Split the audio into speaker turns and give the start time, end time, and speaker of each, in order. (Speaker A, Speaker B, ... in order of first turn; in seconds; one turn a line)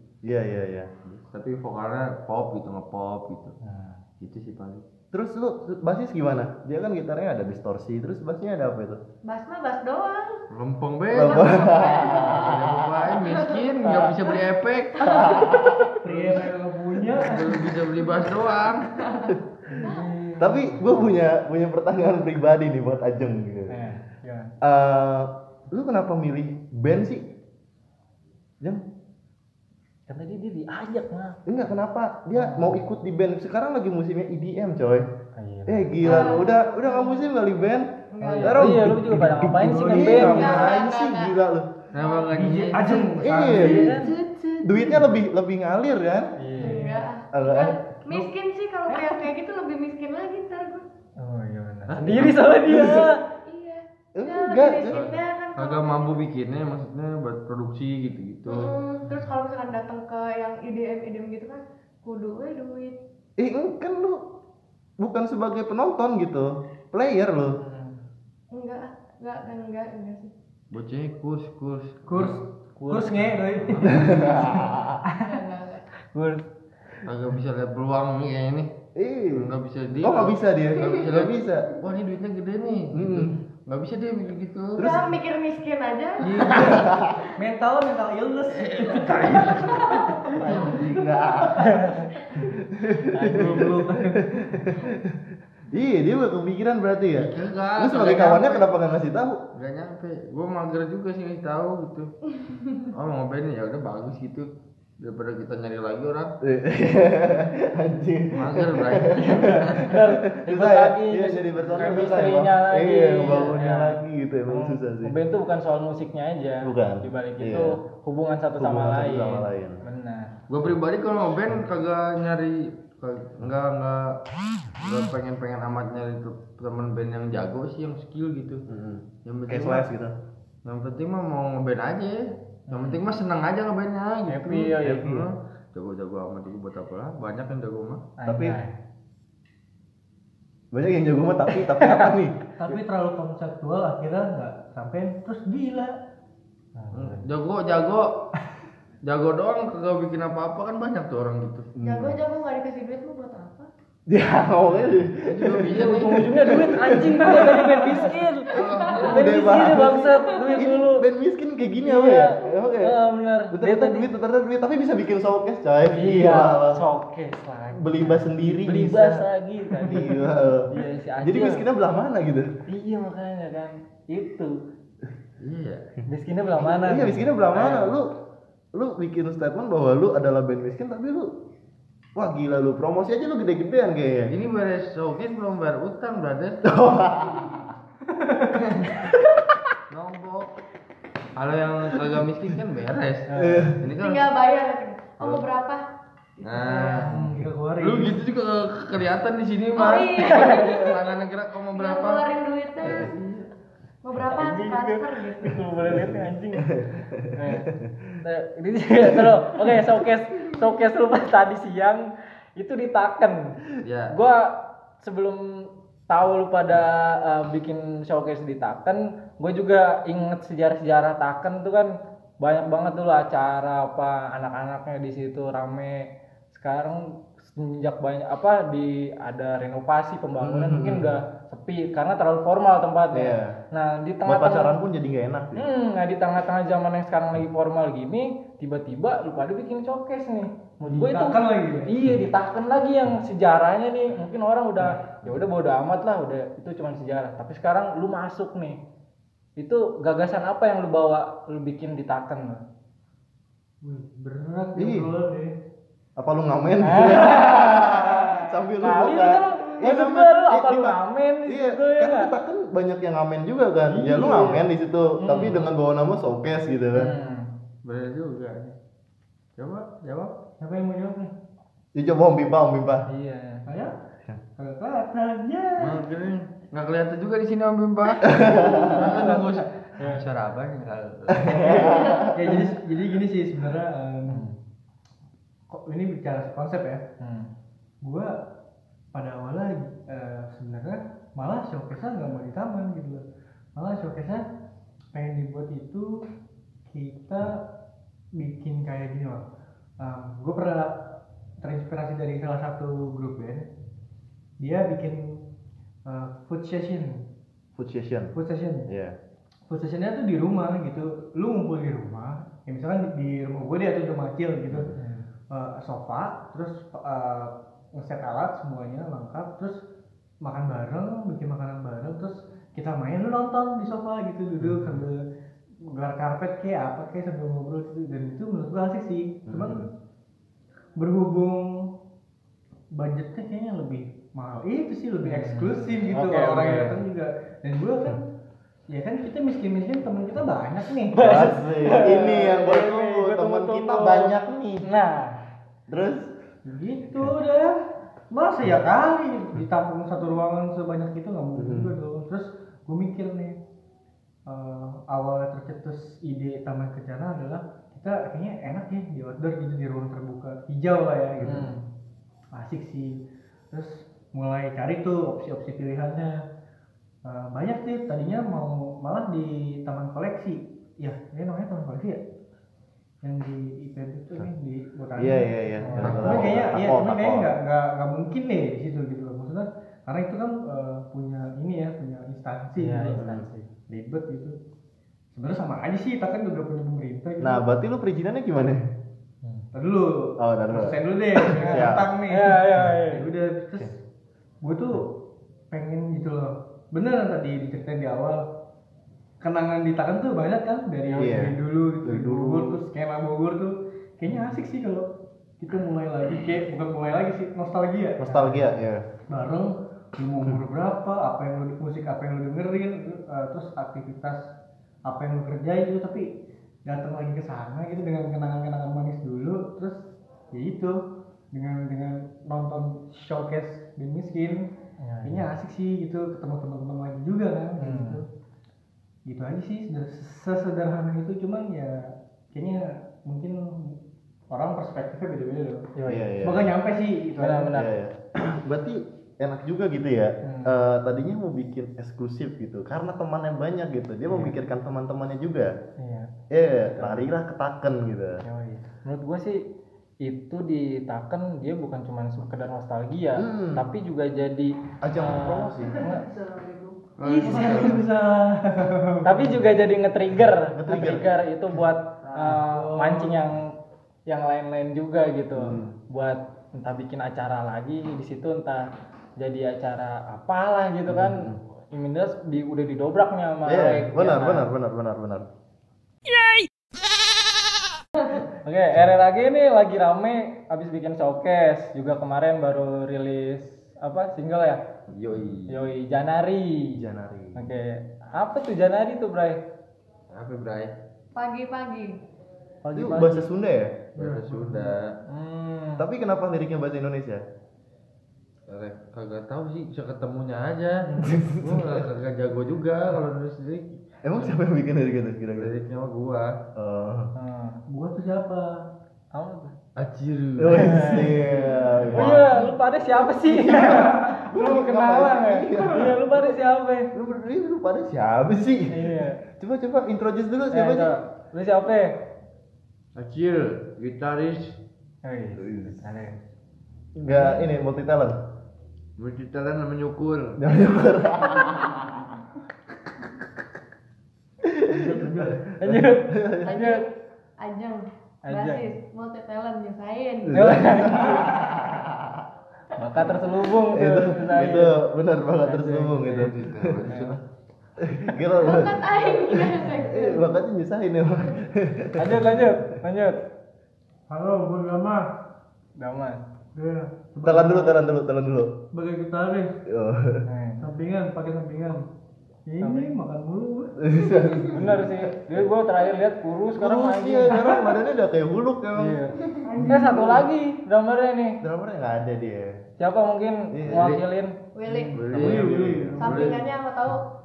Speaker A: 0.2-0.9
Speaker B: 1.1-3.6
Speaker C: 3.6-4.0
Speaker B: 4.2-4.8
Speaker A: 5.1-9.0
Speaker D: 9.2-10.4
Speaker B: 10.5-15.3
Speaker A: 11.1-13.0
Speaker D: 11.2-12.5
Speaker D: 13.2-13.6
Speaker A: 13.8-14.1
Speaker D: 15.0-15.7
Speaker A: 15.0-15.9
Speaker E: 16.0-17.8
Speaker B: 16.1-16.4
Speaker B: 17.1-18.9
Speaker D: 18.9-20.0
Speaker C: 19.7-20.9
Speaker A: 20.4-23.8
Speaker C: 23.7-24.5
Speaker A: 24.6-27.2
Speaker C: 30.1-31.4
Speaker A: 31.4-35.1
Speaker C: 32.3-32.8
Speaker C: 35.3-36.4
Speaker A: 35.7-41.8
Speaker D: 36.0-37.2
Speaker D: 38.1-38.7
Speaker C: 38.2-40.7
Speaker E: 38.7-40.7
Speaker D: 40.2-41.3
Speaker B: 41.9-43.0
Speaker D: 42.0-42.3
Speaker E: 42.3-45.1
Speaker A: 43.0-44.0
Speaker C: 43.5-44.1
Speaker A: 44.6-46.3
Speaker C: 46.4-47.0
Speaker D: 46.6-50.8
Speaker A: 47.3-47.8
Speaker E: 48.9-49.3
Speaker C: 51.2-53.2
Speaker B: 51.9-52.4
Speaker A: 52.7-53.1
Speaker D: 53.5-56.2
Speaker A: 54.2-55.0
Speaker B: 54.9-58.7
Speaker D: 58.5-63.0
Speaker A: 63.4-64.2
Speaker A: 65.0-67.6
Speaker C: 67.5-68.0
Speaker D: 68.5-70.3
Speaker B: 70.7-72.4
Speaker E: 72.1-74.7
Speaker C: 72.8-73.4
Speaker B: 73.6-74.0
Speaker A: 73.8-75.0
Speaker D: 75.2-75.8
Speaker C: 76.1-76.4
Speaker B: 77.0-78.7
Speaker A: 79.0-81.7
Speaker B: 79.3-84.9
Speaker A: 82.9-83.3
Speaker A: 84.8-85.1
Speaker D: 84.8-86.6
Speaker E: 86.2-91.0
Speaker B: 86.2-86.8
Speaker A: 86.6-87.3
Speaker B: 88.5-91.0
Speaker D: 89.7-90.1
Speaker A: 90.4-91.8
Speaker C: 91.6-92.1
Speaker A: 92.3-95.2
Speaker C: 93.1-93.7
Speaker E: 93.2-94.7
Speaker A: 95.7-99.4
Speaker B: 97.1-98.7
Speaker B: 99.5-102.1
Speaker B: 102.8-104.5
Speaker B: 105.0-106.3
Speaker A: 106.4-115.1
Speaker B: 108.3-109.8
Speaker C: 109.2-120.3
Speaker B: 111.6-112.3
Speaker A: 116.6-117.7
Speaker A: 118.6-119.8
Speaker B: 120.5-124.2
Speaker B: 124.8-128.6
Speaker A: 128.7-130.1
Speaker B: 129.2-129.9
Speaker B: 130.6-138.1
Speaker C: 132.7-133.0
Speaker C: 134.3-135.2
Speaker C: 138.2-138.7
Speaker A: 138.2-138.6
Speaker A: 140.7-142.7
Speaker C: 141.6-142.1
Speaker E: 142.6-146.0
Speaker C: 146.8-147.2
Speaker B: 146.9-148.2
Speaker B: 149.0-151.7
Speaker A: 151.8-152.2
Speaker D: 151.8-153.7
Speaker A: 154.1-157.4
Speaker B: 155.1-156.3
Speaker C: 155.7-161.0
Speaker E: 157.3-158.2
Speaker D: 158.5-159.1
Speaker B: 158.5-159.4
Speaker A: 159.0-163.0
Speaker C: 161.8-164.1
Speaker A: 163.5-166.8
Speaker C: 165.9-171.6
Speaker A: 167.7-169.2
Speaker A: 169.8-172.5
Speaker C: 172.7-174.6
Speaker B: 175.4-175.9
Speaker C: 176.1-177.9
Speaker A: 176.6-178.1
Speaker A: 178.7-181.3
Speaker A: 182.2-184.3
Speaker B: 184.3-186.7
Speaker A: 186.6-187.7
Speaker E: 188.1-188.8
Speaker A: 189.0-189.4
Speaker B: 189.9-190.5
Speaker B: 191.3-194.3
Speaker C: 193.3-193.7
Speaker A: 193.3-193.8
Speaker D: 193.9-195.8
Speaker B: 195.2-195.4
Speaker D: 196.4-197.0
Speaker B: 196.4-197.1
Speaker C: 197.0-197.4
Speaker E: 197.0-198.2
Speaker B: 197.8-202.2
Speaker D: 199.7-201.1
Speaker C: 200.3-200.7
Speaker D: 201.7-203.1
Speaker B: 202.8-203.5
Speaker D: 204.0-205.6
Speaker C: 204.2-206.8
Speaker A: 205.8-208.2
Speaker C: 207.3-207.7
Speaker C: 208.2-213.5
Speaker B: 213.8-214.1
Speaker C: 214.1-234.7
Speaker A: 230.4-231.1
Speaker A: 233.1-233.6
Speaker A: 234.2-235.6
Speaker C: 235.6-248.8
Speaker E: 240.8-241.9
Speaker C: 249.6-252.6
Speaker E: 253.8-255.5
Speaker A: 254.8-255.1
Speaker A: 256.2-267.1
Speaker C: 256.8-262.3
Speaker E: 264.0-264.3
Speaker C: 264.1-264.6
Speaker C: 265.2-265.7
Speaker C: 266.9-267.5
Speaker B: 267.8-268.7
Speaker B: 269.6-270.3
Speaker E: 270.6-271.3
Speaker A: 271.9-273.1
Speaker C: 273.1-273.7
Speaker E: 273.7-273.9
Speaker E: 274.6-276.0
Speaker B: 275.8-281.8
Speaker A: 278.2-279.1
Speaker E: 278.7-279.6
Speaker C: 279.1-279.4
Speaker C: 280.0-280.2
Speaker A: 281.3-282.6
Speaker D: 281.9-282.3
Speaker E: 282.3-284.4
Speaker C: 284.3-284.6
Speaker E: 285.7-287.0
Speaker C: 287.2-287.5
Speaker E: 288.0-288.3
Speaker E: 289.1-293.2
Speaker E: 293.8-294.4
Speaker E: 295.1-296.2
Speaker E: 296.9-297.6
Speaker E: 298.3-299.4
Speaker E: 300.0-303.7
Speaker E: 304.6-305.4
Speaker E: 306.1-307.2
Speaker A: 307.8-308.3
Speaker E: 308.3-308.9
Speaker A: 308.9-309.1
Speaker E: 309.7-314.9
Speaker A: 314.7-314.9
Speaker C: 314.9-315.2
Speaker E: 315.5-319.8
Speaker E: 320.4-325.2
Speaker A: 324.6-325.0
Speaker E: 325.8-329.9
Speaker A: 329.5-329.9
Speaker E: 330.9-331.9
Speaker E: 332.9-338.3
Speaker C: 335.2-337.0
Speaker E: 338.9-341.4
Speaker C: 341.1-345.4
Speaker A: 341.2-344.9
Speaker A: 345.9-346.3
Speaker E: 346.6-353.6
Speaker A: 351.6-351.9
Speaker E: 354.4-361.7
Speaker A: 361.4-361.6
Speaker C: 361.4-361.8
Speaker E: 362.5-363.2
Speaker E: 363.7-366.4
Speaker E: 367.2-372.2
Speaker E: 373.2-383.2
Speaker A: 375.2-377.5
Speaker C: 375.8-376.4
Speaker B: 376.0-376.6
Speaker C: 382.8-383.7
Speaker A: 383.1-383.4
Speaker E: 383.9-384.6
Speaker E: 385.3-387.6
Speaker A: 387.4-388.8
Speaker E: 389.7-394.0
Speaker A: 390.4-392.1
Speaker C: 391.5-393.2
Speaker E: 394.6-395.2
Speaker E: 395.7-398.4
Speaker E: 399.4-405.1
Speaker A: 401.1-402.8
Speaker E: 405.6-408.6
Speaker A: 408.2-409.0
Speaker E: 409.3-414.5
Speaker E: 415.0-416.3
Speaker E: 416.9-421.0
Speaker E: 421.5-424.7
Speaker C: 425.0-425.5
Speaker E: 425.2-428.2
Speaker C: 427.8-428.2
Speaker E: 429.2-433.9
Speaker E: 434.5-435.9
Speaker C: 435.9-436.3
Speaker A: 436.1-436.7
Speaker E: 436.4-437.7
Speaker C: 437.4-437.9
Speaker A: 437.7-445.7
Speaker C: 440.4-440.8
Speaker C: 444.3-444.6
Speaker C: 446.0-446.3
Speaker A: 446.5-448.4
Speaker C: 447.0-447.3
Speaker C: 448.4-449.6
Speaker C: 450.2-456.2
Speaker A: 453.4-453.8
Speaker A: 455.0-456.0
Speaker E: 455.8-459.6
Speaker B: 457.2-458.1
Speaker C: 457.2-457.9
Speaker C: 459.2-463.7
Speaker A: 460.7-461.8
Speaker E: 462.3-463.4
Speaker C: 464.3-474.7
Speaker A: 465.6-465.9
Speaker A: 471.1-471.6
Speaker A: 473.6-475.5
Speaker C: 478.6-484.8
Speaker B: 485.1-485.8
Speaker C: 485.7-487.0
Speaker A: 487.0-487.6
Speaker C: 487.5-489.6
Speaker B: 490.3-490.9
Speaker D: 491.3-492.2
Speaker C: 492.8-493.5
Speaker A: 492.9-494.1
Speaker B: 494.1-495.1
Speaker E: 494.2-495.0
Speaker C: 495.2-496.0
Speaker A: 496.0-497.4
Speaker B: 498.7-504.6
Speaker C: 501.0-501.4
Speaker A: 501.2-502.0
Speaker A: 504.2-505.7
Speaker B: 505.6-506.6
Speaker A: 506.7-507.3
Speaker C: 507.4-507.8
Speaker E: 507.9-508.8
Speaker C: 509.3-509.7
Speaker B: 509.9-511.2
Speaker A: 510.6-512.6
Speaker C: 510.7-511.4
Speaker B: 512.1-512.4
Speaker C: 512.1-517.1
Speaker A: 513.4-516.5
Speaker A: 517.1-521.1
Speaker C: 518.9-519.4
Speaker C: 520.7-522.2
Speaker B: 523.1-524.8
Speaker C: 525.2-526.4
Speaker A: 525.6-526.0
Speaker A: 527.2-528.4
Speaker B: 529.2-530.6
Speaker A: 530.6-532.3
Speaker A: 534.6-536.7
Speaker E: 534.9-535.6
Speaker C: 535.8-537.0
Speaker D: 536.6-541.1
Speaker C: 538.5-538.9
Speaker A: 540.5-542.5
Speaker C: 540.5-541.5
Speaker C: 543.0-545.0
Speaker A: 543.9-547.0
Speaker C: 545.6-546.5
Speaker B: 546.2-547.4
Speaker C: 547.0-547.4
Speaker A: 548.0-552.7
Speaker D: 548.6-550.5
Speaker C: 552.2-553.4
Speaker E: 554.3-555.3
Speaker C: 556.0-556.4
Speaker E: 556.7-558.0
Speaker A: 557.4-558.8
Speaker E: 558.9-559.7
Speaker A: 559.9-560.4
Speaker C: 560.5-560.9
Speaker E: 560.8-562.0
Speaker E: 562.7-564.0
Speaker C: 562.8-563.1
Speaker A: 564.0-565.6
Speaker C: 564.3-567.8
Speaker A: 566.8-570.4
Speaker C: 568.9-571.6
Speaker D: 569.7-570.2
Speaker E: 569.7-570.3
Speaker A: 571.6-572.7
Speaker C: 573.0-574.5
Speaker A: 573.7-574.1
Speaker B: 573.9-574.2
Speaker D: 574.7-575.2
Speaker E: 575.0-576.6
Speaker B: 575.1-576.7
Speaker A: 575.3-576.4
Speaker D: 576.2-577.2